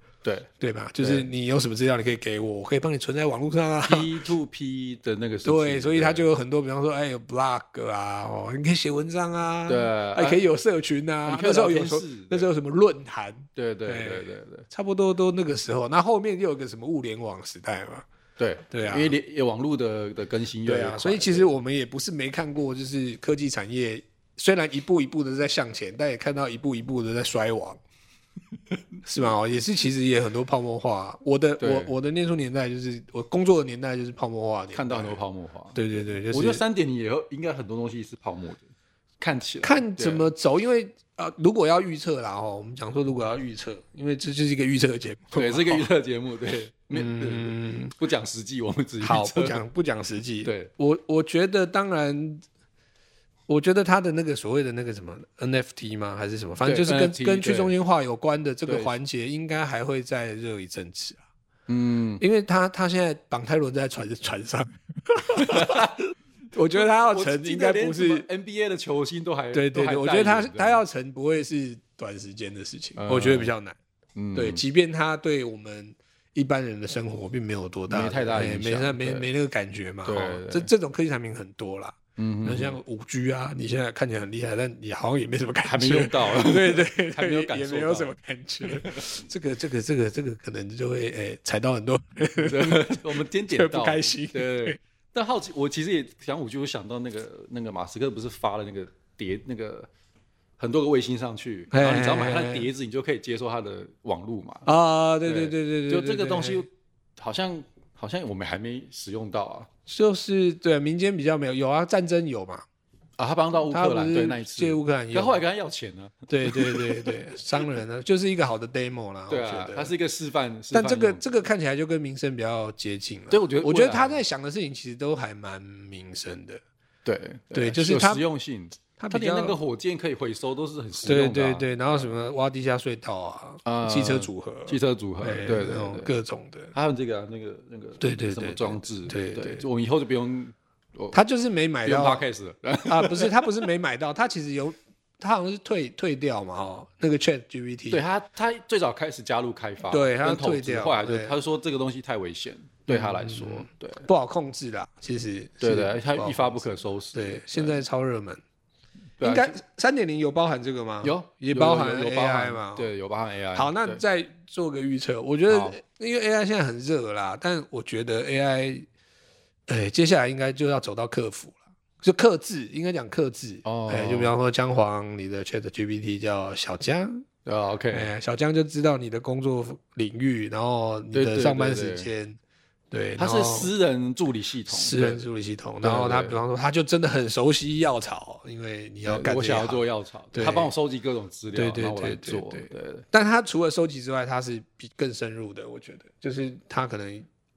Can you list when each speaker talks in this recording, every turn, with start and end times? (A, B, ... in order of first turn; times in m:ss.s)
0:00.2-0:00.5 A
0:00.6-0:04.2 B
0:01.0-0:01.2 A
0:03.8-0:06.3 A
0:05.4-0:18.0 B
0:09.7-0:10.4 A
0:11.2-0:12.5 A
0:13.5-0:14.7 A
0:18.4-0:21.5 A
0:18.7-0:19.2 B
0:20.6-0:27.8 B
0:29.0-0:35.2 B
0:31.6-0:31.9 A
0:34.7-0:35.8 A
0:35.7-0:36.6 B
0:36.3-0:38.7 A
0:39.2-0:40.3 A
0:39.6-0:45.8 B
0:45.3-0:49.6 A
0:46.9-0:47.9 B
0:49.0-0:52.4 B
0:50.4-0:50.7 A
0:53.5-1:01.2 B
0:56.6-0:57.7 A
0:58.7-0:58.9 A
1:01.7-1:02.2 A
1:02.2-1:05.8 B
1:05.4-1:06.0 A
1:06.5-1:08.2 B
1:06.7-1:10.8 A
1:09.5-1:13.8 B
1:13.0-1:13.5 A
1:14.2-1:14.6 A
1:14.3-1:34.8 B
1:17.9-1:19.2 A
1:20.0-1:20.7 A
1:22.2-1:22.8 A
1:25.6-1:29.2 A
1:32.3-1:39.9 A
1:40.6-1:44.7 A
1:41.7-1:42.7 B
1:44.6-1:46.6 B
1:45.2-1:49.7 A
1:49.9-1:52.6 B
1:53.2-1:57.2 A
1:53.7-1:55.4 B
1:56.3-1:59.9 B
1:59.3-2:01.2 A
2:00.7-2:06.6 B
2:03.3-2:04.2 A
2:07.0-2:11.7 A
2:07.5-2:08.2 B
2:09.0-2:09.6 B
2:11.0-2:16.7 B
2:13.6-2:16.1 A
2:16.7-2:21.2 A
2:18.0-2:19.6 B
2:21.1-2:22.2 B
2:21.8-2:23.7 A
2:22.8-2:28.0 B
2:27.9-2:34.1 A
2:29.9-2:31.3 B
2:32.9-2:38.4 B
2:35.6-2:37.8 A
2:39.2-2:39.6 A
2:39.2-2:42.9 B
2:41.0-2:44.0 A
2:43.5-2:48.8 B
2:45.5-2:45.8 A
2:49.7-2:57.2 B
2:53.6-2:54.3 A
2:57.4-2:58.1 A
2:57.9-3:02.4 B
3:01.1-3:02.1 A
3:02.9-3:03.7 B
3:03.2-3:05.2 A
3:04.7-3:10.7 B
3:05.8-3:06.4 A
3:09.0-3:13.0 A
3:11.5-3:17.2 B